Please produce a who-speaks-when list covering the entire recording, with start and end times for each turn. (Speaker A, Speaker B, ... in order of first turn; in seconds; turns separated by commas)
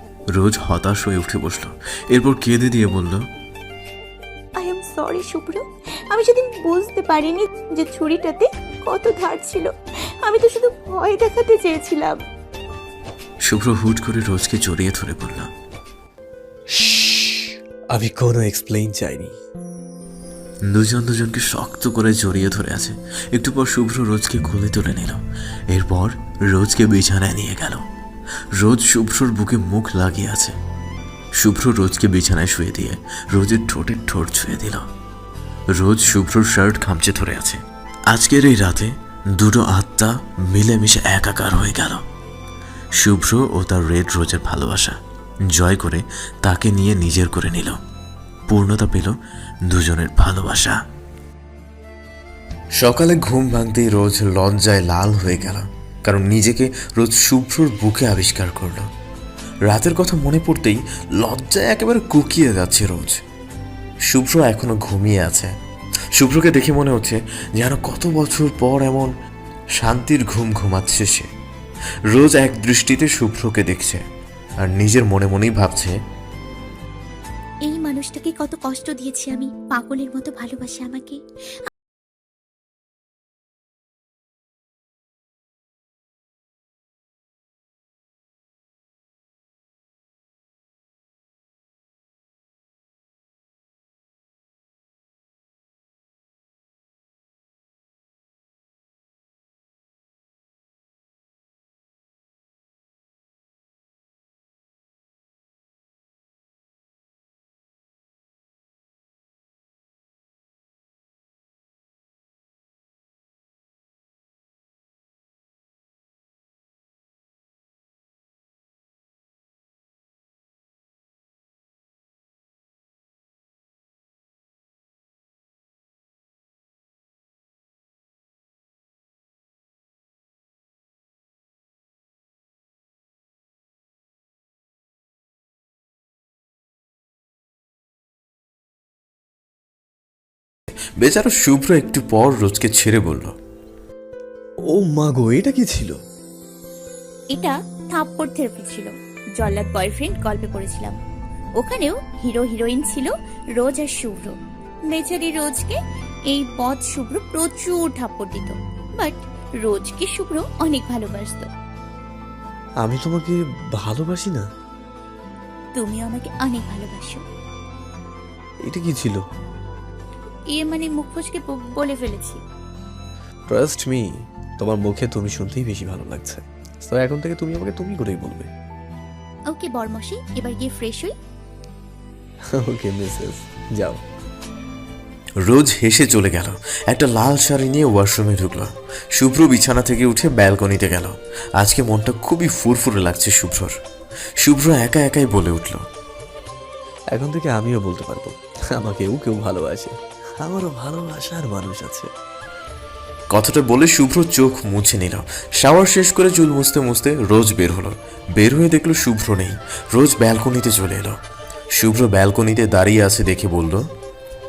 Speaker A: 0.3-3.2, Speaker B: 4.6-12.2, Speaker A: 13.4-15.5, Speaker C: 16.7-19.4, Speaker A: 20.7-27.8, Speaker A: 28.5-30.6, Speaker A: 31.4-34.9, Speaker A: 35.7-42.0, Speaker A: 43.0-45.0, Speaker A: 45.5-47.8, Speaker A: 48.5-49.1, Speaker A: 49.7-50.8, Speaker A: 52.8-58.9, Speaker A: 59.7-63.2, Speaker A: 64.1-65.5, Speaker A: 66.2-69.1, Speaker A: 69.8-71.3, Speaker A: 72.1-74.0, Speaker A: 74.7-75.9, Speaker B: 77.7-81.2, Speaker A: 141.0-143.3, Speaker C: 144.7-145.9, Speaker B: 147.3-151.0, Speaker B: 151.6-154.3, Speaker B: 154.9-155.8, Speaker B: 156.3-161.5, Speaker C: 162.8-164.5, Speaker B: 165.8-167.2, Speaker C: 168.6-169.2, Speaker B: 170.5-172.4, Speaker C: 173.5-174.1, Speaker C: 174.6-178.5, Speaker B: 179.5-181.1, Speaker C: 182.5-184.0, Speaker A: 185.4-193.8, Speaker A: 194.4-195.8, Speaker C: 197.1-202.1, Speaker A: 203.3-211.2, Speaker A: 211.8-213.8